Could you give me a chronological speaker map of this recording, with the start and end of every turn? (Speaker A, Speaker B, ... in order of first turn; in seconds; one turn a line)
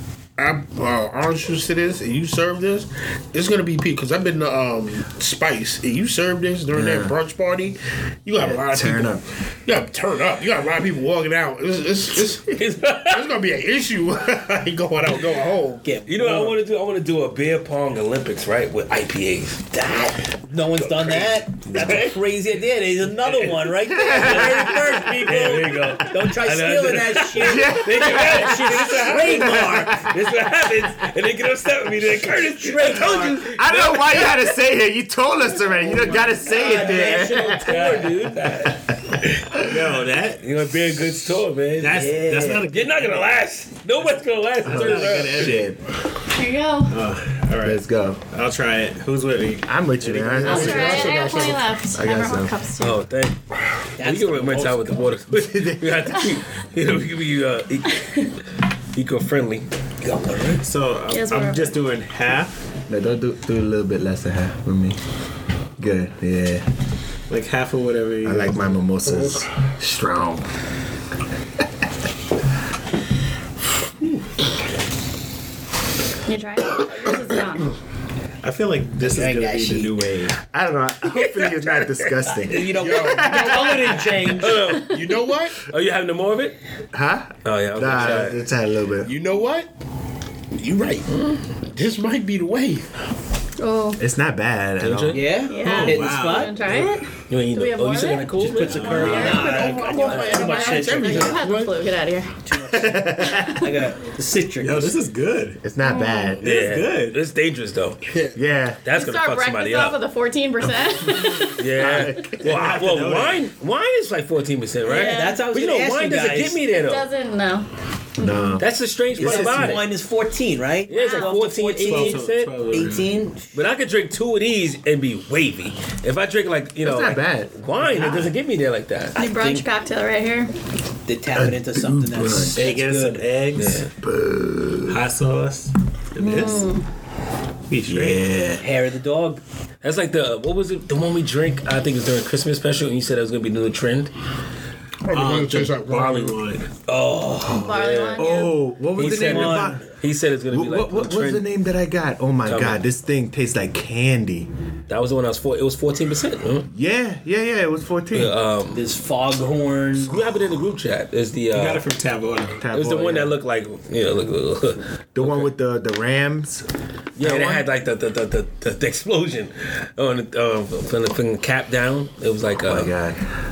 Speaker A: 0.4-15.8
Speaker B: 6.7-7.2
Speaker B: 8.4-9.2
Speaker C: 12.5-13.3
Speaker D: 15.8-16.6
Speaker C: 16.1-19.6
Speaker D: 19.7-30.1
Speaker C: 20.8-22.1
Speaker B: 23.9-25.2
Speaker C: 24.1-34.4
Speaker B: 27.4-28.6
Speaker B: 29.4-30.1
Speaker D: 32.0-33.5
Speaker B: 32.9-37.9
Speaker D: 36.1-38.4
Speaker C: 36.6-38.9
Speaker B: 38.6-39.8
Speaker E: 39.5-40.9
Speaker C: 40.4-45.6
Speaker E: 41.8-43.2
Speaker D: 42.0-42.7
Speaker E: 44.6-45.7
Speaker B: 44.6-45.8
Speaker F: 46.3-47.0
Speaker E: 46.9-47.8
Speaker B: 47.6-48.2
Speaker E: 48.3-51.0
Speaker B: 49.6-51.3
Speaker A: 50.5-51.8
Speaker F: 50.5-53.0
Speaker B: 51.9-52.5
Speaker C: 52.8-53.4
Speaker D: 54.0-55.2
Speaker C: 54.0-58.3
Speaker B: 55.3-56.2
Speaker F: 58.0-58.2
Speaker C: 58.9-59.6
Speaker D: 60.0-60.6
Speaker E: 60.6-62.6
Speaker F: 61.1-61.8
Speaker B: 62.9-65.0
Speaker B: 65.8-66.6
Speaker E: 67.3-68.8
Speaker B: 68.2-70.5
Speaker F: 76.2-77.7
Speaker E: 78.4-80.3
Speaker B: 79.0-84.0
Speaker D: 79.1-79.6
Speaker C: 81.1-82.3
Speaker D: 82.4-84.6
Speaker A: 82.8-85.6
Speaker C: 84.2-86.6
Speaker B: 86.9-89.1
Speaker C: 87.4-88.4
Speaker A: 89.0-89.7
Speaker A: 90.5-91.1
Speaker A: 91.7-92.9
Speaker F: 93.6-94.0
Speaker B: 94.0-95.3
Speaker C: 94.8-95.2
Speaker D: 95.1-96.7
Speaker F: 95.5-99.4
Speaker E: 95.5-96.9
Speaker C: 97.3-100.9
Speaker D: 98.5-101.5
Speaker E: 98.6-99.4
Speaker A: 99.2-101.8
Speaker F: 100.1-102.4
Speaker D: 102.4-104.9
Speaker B: 102.7-103.7
Speaker E: 104.6-105.6
Speaker B: 105.6-106.4
Speaker F: 105.8-106.4
Speaker E: 106.4-107.2
Speaker C: 106.4-108.0
Speaker A: 108.1-108.4
Speaker B: 108.3-108.8
Speaker C: 108.8-110.0
Speaker F: 108.9-111.7
Speaker C: 111.6-117.1
Speaker B: 111.8-112.5
Speaker E: 112.4-113.4
Speaker D: 114.8-116.6
Speaker F: 114.9-115.4
Speaker F: 116.7-118.6
Speaker B: 118.2-118.7
Speaker C: 118.6-119.9
Speaker D: 119.2-123.5
Speaker B: 119.2-119.8
Speaker C: 120.9-122.5
Speaker F: 120.9-121.3
Speaker E: 121.8-123.2
Speaker C: 123.5-129.1
Speaker B: 126.8-128.3
Speaker D: 129.1-129.7
Speaker F: 129.1-130.5
Speaker D: 131.1-133.2
Speaker B: 131.3-132.6
Speaker E: 132.5-133.8
Speaker C: 133.5-133.9
Speaker B: 134.0-135.0
Speaker E: 134.9-136.7
Speaker F: 136.2-136.9
Speaker E: 137.7-138.2
Speaker B: 137.8-138.6
Speaker D: 138.6-139.4
Speaker C: 139.8-144.1
Speaker A: 145.0-146.4
Speaker E: 145.1-146.7
Speaker D: 146.9-147.8
Speaker F: 147.5-148.6
Speaker C: 147.6-151.4
Speaker B: 148.2-149.8
Speaker D: 149.0-149.8
Speaker B: 150.5-154.5
Speaker C: 152.5-152.8
Speaker C: 154.9-156.7
Speaker B: 156.7-158.3
Speaker C: 158.1-158.8
Speaker D: 158.7-160.2
Speaker C: 160.0-161.8
Speaker E: 161.5-162.6
Speaker B: 162.6-163.4
Speaker C: 162.7-165.5
Speaker B: 165.1-166.7
Speaker C: 167.2-172.9
Speaker B: 167.2-167.7
Speaker B: 172.6-173.3